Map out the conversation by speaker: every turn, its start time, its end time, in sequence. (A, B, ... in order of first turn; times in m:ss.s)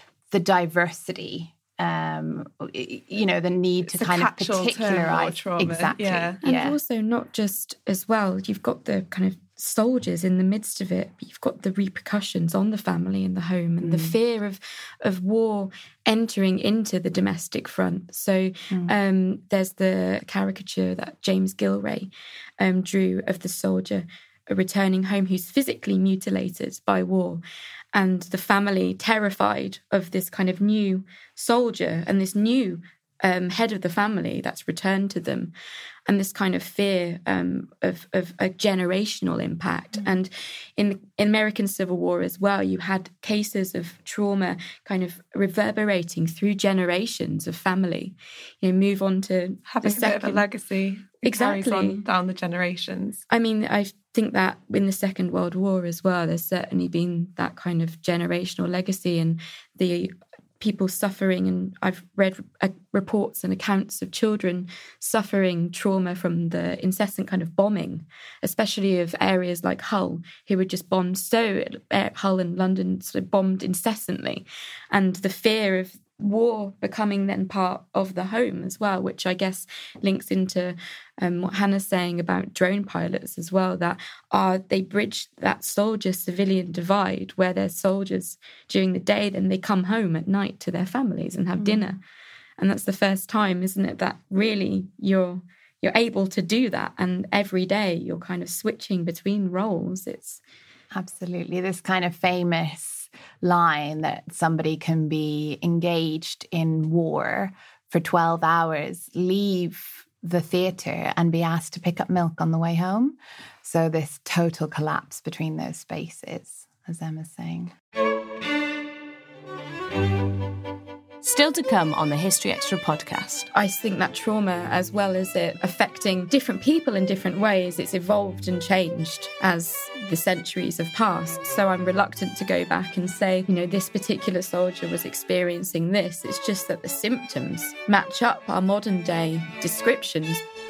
0:00.3-0:06.8 A
0:03.9-0:06.4 B
0:06.4-0:27.4 C
0:13.8-0:14.2 A
0:27.9-0:35.5 C
0:36.1-0:50.4 C
0:49.7-0:53.2 B
0:51.2-0:52.0 C
0:53.3-1:32.0 C
1:32.6-1:40.4 C
1:40.9-1:57.7 A
2:01.2-2:03.5 D
2:03.5-2:20.4 C